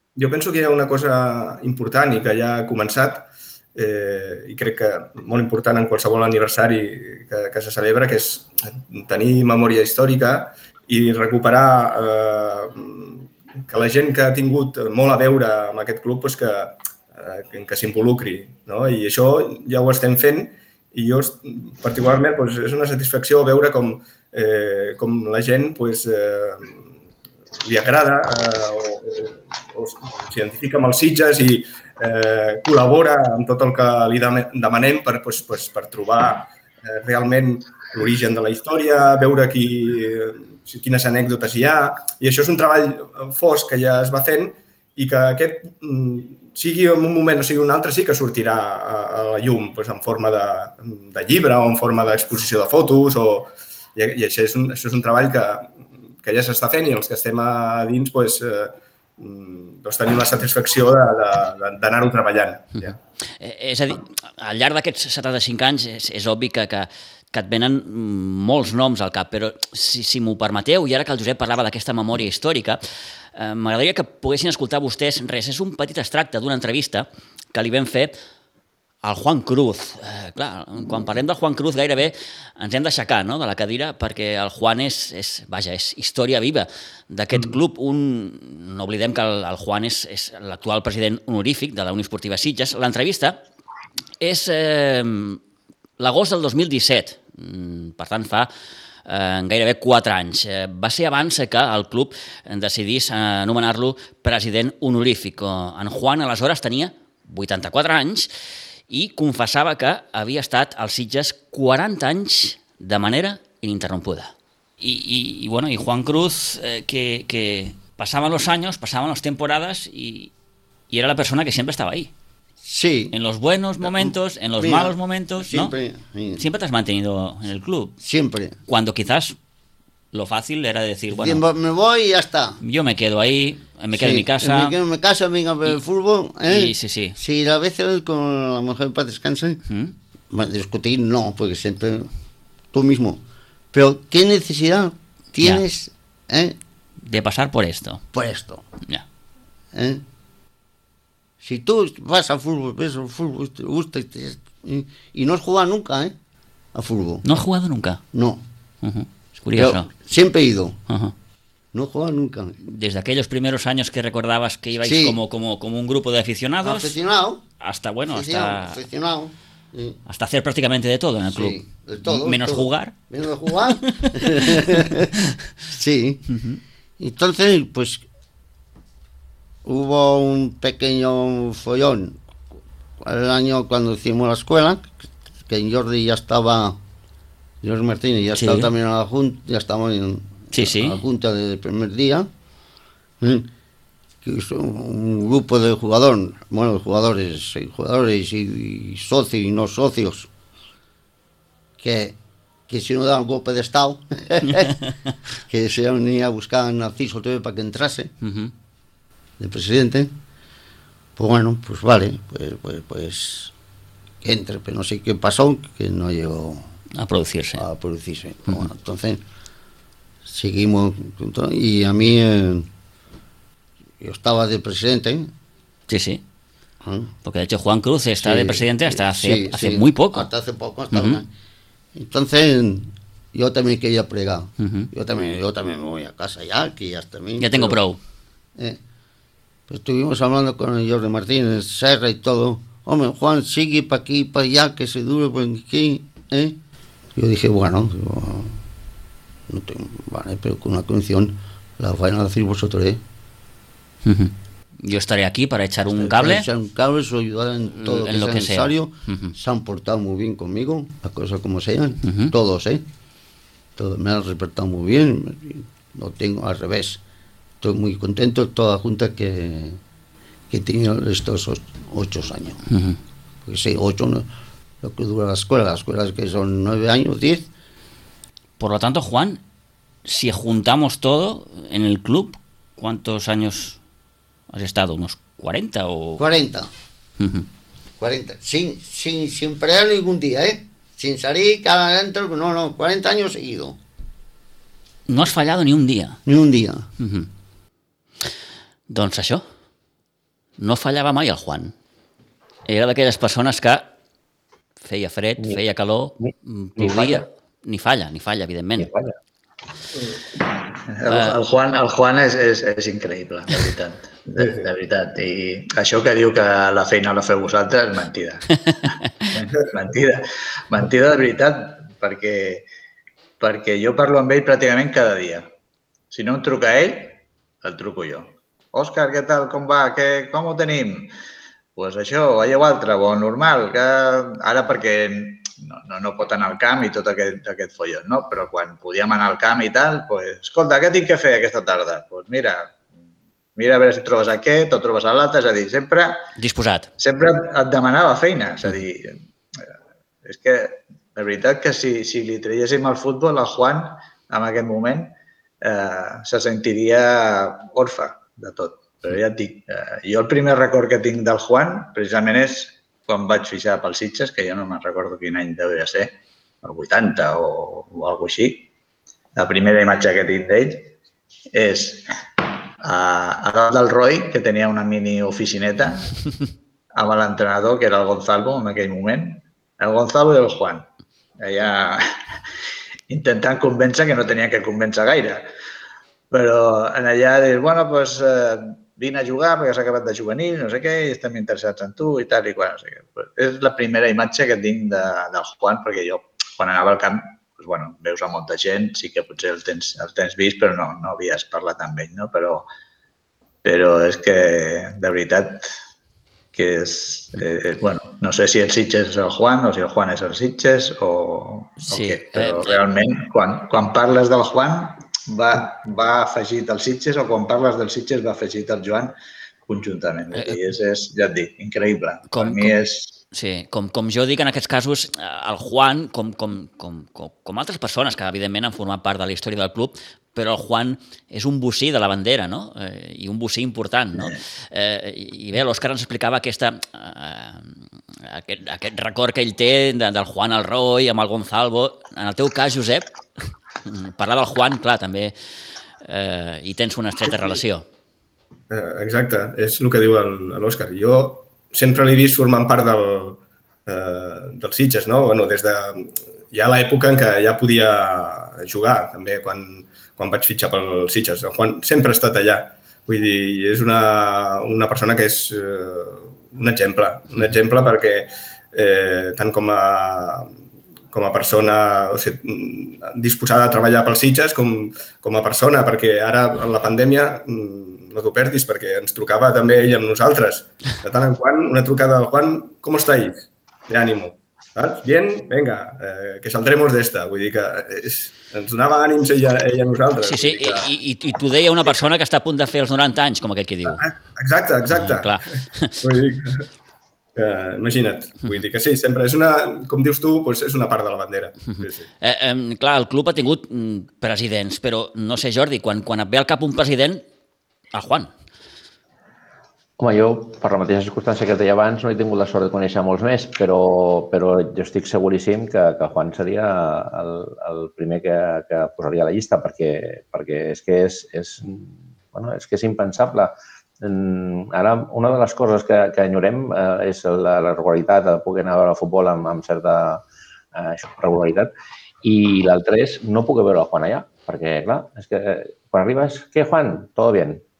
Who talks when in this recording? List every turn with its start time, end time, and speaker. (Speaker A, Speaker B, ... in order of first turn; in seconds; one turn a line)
Speaker A: 0.1-26.8
Speaker A: 27.6-62.9
Speaker B: 62.8-72.8
Speaker B: 73.3-78.2
Speaker B: 79.0-93.4
Speaker B: 94.2-95.4
Speaker B: 96.0-98.5
Speaker B: 99.1-108.3
Speaker B: 108.9-120.3
Speaker B: 120.9-122.1
Speaker C: 122.6-123.1
Speaker B: 123.1-125.7
Speaker C: 123.8-126.4
Speaker B: 126.3-128.0
Speaker C: 128.0-128.6
Speaker B: 128.7-129.3
Speaker B: 130.1-131.4
Speaker C: 131.1-132.6
Speaker B: 132.6-134.7
Speaker C: 133.9-139.6
Speaker B: 136.5-137.2
Speaker B: 139.7-139.9
Speaker C: 140.3-142.1
Speaker C: 142.7-143.2
Speaker C: 143.7-146.6
Speaker B: 147.0-148.1
Speaker C: 148.1-148.6
Speaker C: 149.7-150.0
Speaker C: 151.4-156.2
Speaker C: 156.7-157.2
Speaker B: 157.2-158.0
Speaker C: 158.1-158.4
Speaker B: 158.8-159.9
Speaker C: 159.5-160.8
Speaker B: 160.9-161.1
Speaker C: 161.7-162.6
Speaker B: 162.6-167.0
Speaker C: 164.8-165.2
Speaker C: 166.6-167.4
Speaker B: 167.6-168.8
Speaker C: 168.1-170.0
Speaker B: 170.1-173.0
Speaker C: 171.3-175.1
Speaker B: 174.0-175.0
Speaker C: 175.7-176.3
Speaker B: 176.3-176.6
Speaker C: 177.0-178.0
Speaker C: 179.6-182.2
Speaker C: 183.0-184.9
Speaker C: 185.5-186.8
Speaker C: 187.6-192.3
Speaker B: 188.4-188.7
Speaker B: 190.5-191.0
Speaker C: 193.2-193.5
Speaker C: 194.2-200.3
Speaker C: 201.8-202.2
Speaker C: 202.7-204.9
Speaker C: 205.4-208.1
Speaker B: 208.2-208.5
Speaker C: 209.4-210.1
Speaker C: 211.2-213.5
Speaker C: 214.2-216.7
Speaker B: 216.9-217.7
Speaker C: 217.6-219.2
Speaker C: 220.2-222.7
Speaker C: 224.0-225.3
Speaker B: 225.9-226.2
Speaker C: 226.8-227.1
Speaker B: 227.2-230.3
Speaker C: 228.2-231.3
Speaker B: 230.9-231.2
Speaker C: 231.9-237.8
Speaker B: 234.6-234.9
Speaker B: 237.4-238.0
Speaker C: 239.7-246.6
Speaker C: 247.1-248.6
Speaker C: 249.5-253.0
Speaker B: 254.0-256.4
Speaker C: 255.8-262.8
Speaker B: 257.7-259.3
Speaker B: 262.0-262.3
Speaker C: 263.8-267.0
Speaker C: 267.6-269.8
Speaker C: 270.5-272.6
Speaker B: 272.7-273.0
Speaker C: 273.4-274.2
Speaker C: 274.8-277.5
Speaker B: 278.6-279.4
Speaker B: 280.0-283.8
Speaker B: 284.5-286.2
Speaker C: 286.2-286.7
Speaker B: 287.2-287.4
Speaker C: 288.0-293.8
Speaker B: 295.1-296.2
Speaker C: 296.2-296.9
Speaker B: 297.0-297.3
Speaker B: 298.9-299.4
Speaker B: 300.6-301.7
Speaker B: 302.7-303.9
Speaker B: 304.8-308.9
Speaker D: 306.2-307.2
Speaker D: 308.8-309.1
Speaker E: 310.9-322.6
Speaker B: 311.1-311.4
Speaker A: 314.4-314.7
Speaker E: 323.4-325.5
Speaker E: 326.1-331.1
Speaker E: 331.8-342.8
Speaker E: 343.6-346.2
Speaker B: 346.4-346.9
Speaker E: 347.0-349.6
Speaker E: 350.2-368.7
Speaker E: 369.4-370.9
Speaker E: 371.5-372.1
Speaker E: 372.8-376.2
Speaker E: 376.9-380.9
Speaker E: 381.4-382.0
Speaker E: 383.1-385.4
Speaker E: 386.3-402.7
Speaker E: 403.6-405.6
Speaker E: 406.5-419.1
Speaker B: 411.9-412.8
Speaker E: 419.7-423.2
Speaker B: 422.3-422.7
Speaker B: 423.3-445.3
Speaker B: 446.0-447.8
Speaker A: 448.7-470.5
Speaker A: 471.1-490.9
Speaker B: 490.2-494.0
Speaker A: 493.9-495.4
Speaker B: 494.9-495.9
Speaker A: 496.0-496.6
Speaker A: 497.3-502.1
Speaker B: 501.7-507.2
Speaker B: 507.9-508.3
Speaker D: 510.0-531.7
Speaker D: 532.2-537.6